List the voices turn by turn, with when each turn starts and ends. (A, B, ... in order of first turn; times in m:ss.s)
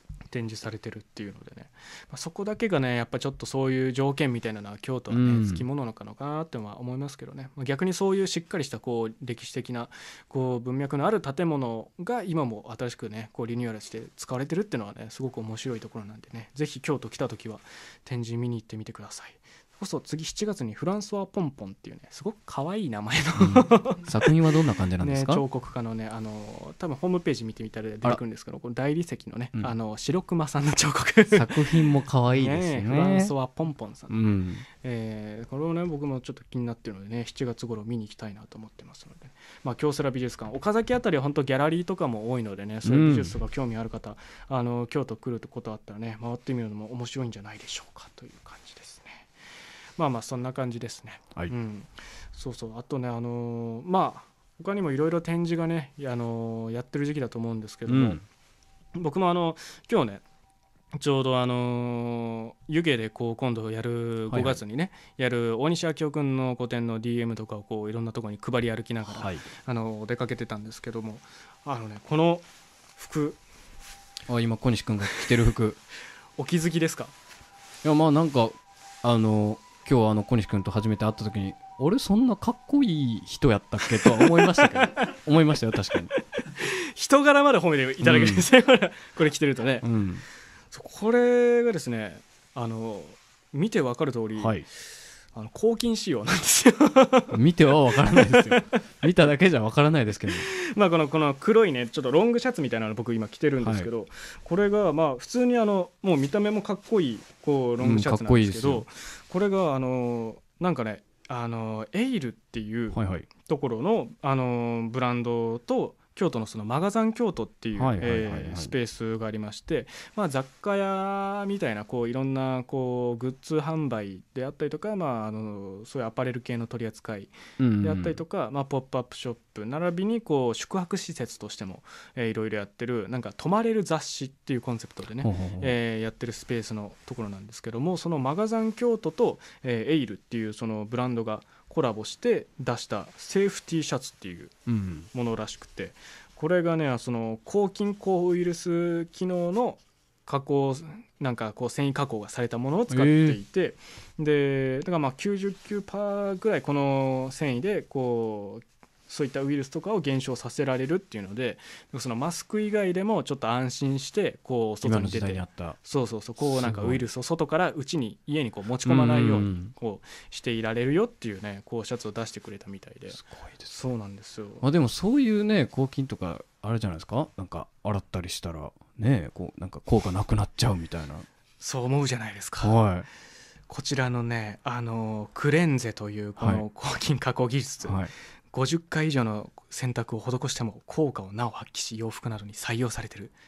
0:00.3-0:24.3 A
0:05.1-0:05.6 B
0:23.4-0:25.4 B
0:25.0-0:49.3 A
0:31.3-0:33.3 B
0:34.1-0:34.6 B
0:42.8-0:43.3 B
0:50.0-0:58.2 A
0:57.9-0:58.2 B
0:59.0-1:00.2 A
1:01.0-1:12.4 A
1:04.3-1:04.6 B
1:09.1-1:09.4 B
1:13.0-1:13.4 A
1:14.3-1:15.8 B
1:16.4-1:17.1 A
1:17.8-1:26.1 B
1:24.0-1:25.1 A
1:26.5-1:29.8 A
1:28.0-1:28.4 B
1:29.8-1:30.2 B
1:30.7-1:34.6 A
1:34.4-1:34.6 B
1:35.3-1:37.4 A
1:37.3-1:40.4 B
1:37.9-1:38.8 A
1:40.4-2:24.6 A
1:43.6-1:43.9 B
1:47.8-1:48.8 B
1:52.9-1:53.3 B
1:57.8-1:58.7 B
2:07.6-2:08.2 B
2:15.2-2:15.7 B
2:24.7-2:25.1 B
2:25.1-2:54.6 A
2:32.9-2:33.4 B
2:44.8-2:45.8 B
2:46.4-2:47.0 B
2:48.8-2:49.7 B
2:53.1-2:53.7 B
2:54.6-3:01.2 B
3:01.6-3:02.8 A
3:02.6-3:03.1 B
3:03.7-3:13.3 A
3:06.4-3:06.6 B
3:07.8-3:08.1 B